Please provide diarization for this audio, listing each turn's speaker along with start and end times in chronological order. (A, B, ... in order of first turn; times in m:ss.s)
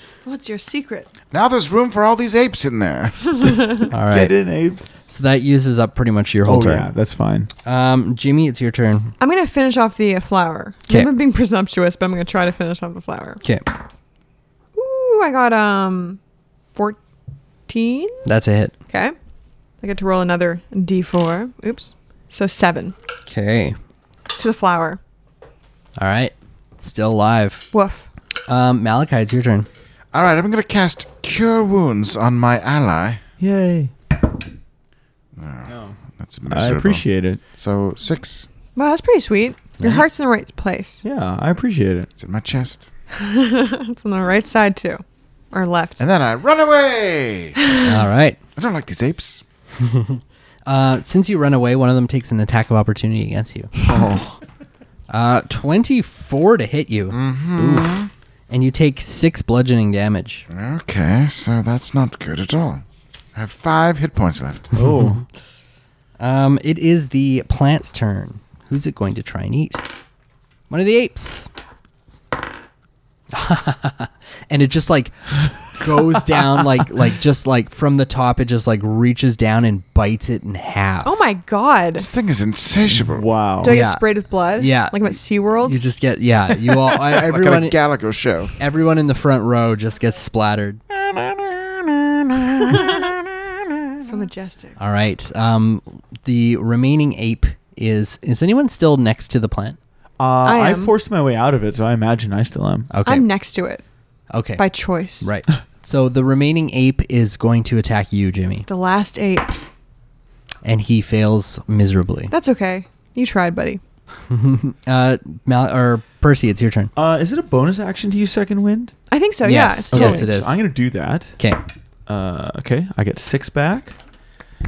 0:00.2-0:01.1 A
0:01.3-0:03.6 B
0:03.4-0:03.9 A
0:03.9-0:04.3 C
0:04.1-0:04.9 D
0:05.1-0:06.9 C
0:06.4-0:07.5 D
0:07.6-0:09.1 C
0:09.2-0:13.4 A
0:13.4-0:13.7 C
0:14.8-0:16.2 A
0:16.7-0:17.0 A
0:17.7-0:18.2 A
0:18.2-0:18.7 C
0:18.9-0:19.1 A
0:19.8-0:22.9 A
0:23.2-0:23.8 C
0:24.4-0:25.0 A
0:26.0-0:27.6 C
0:27.7-0:28.1 A
0:28.5-0:29.7 C
0:30.1-0:33.2 B
0:33.4-0:33.9 D
0:35.4-0:38.4 B
0:35.6-0:37.4 D
0:38.8-0:41.0 A
0:39.8-0:40.1 C
0:41.0-0:42.1 D
0:42.2-0:42.8 B
0:43.1-0:46.0 A
0:46.0-0:47.6 B
0:47.8-0:48.4 C
0:48.5-0:49.4 B
0:49.8-0:53.7 C
0:53.8-0:54.4 B
0:55.1-0:57.2 C
0:57.1-0:58.1 B
0:57.6-0:58.0 D
0:58.5-1:00.4 C
1:00.5-1:02.8 B
1:03.3-1:04.7 B
1:04.7-1:05.2 D
1:06.2-1:09.8 C
1:10.7-1:11.5 C
1:13.3-1:21.2 C
1:21.0-1:22.1 A
1:22.0-1:23.3 B
1:22.9-1:23.8 D
1:23.6-1:25.8 A
1:23.6-1:27.8 C
1:26.8-1:28.6 B
1:28.6-1:30.8 C
1:30.9-1:33.3 B
1:34.0-1:34.8 A
1:34.8-1:39.8 C
1:40.2-1:42.9 D
1:40.4-1:40.9 A
1:42.9-1:43.2 C
1:43.0-1:43.8 A
1:44.3-1:44.6 C
1:44.6-1:45.3 A
1:45.2-1:48.7 C
1:48.7-1:49.6 A
1:50.6-1:52.3 C
1:52.3-1:53.8 A
1:54.3-1:56.9 C
1:57.0-1:58.9 D
1:59.1-2:00.3 A
1:59.4-2:00.5 C
1:59.9-2:01.4 D
2:02.1-2:03.9 D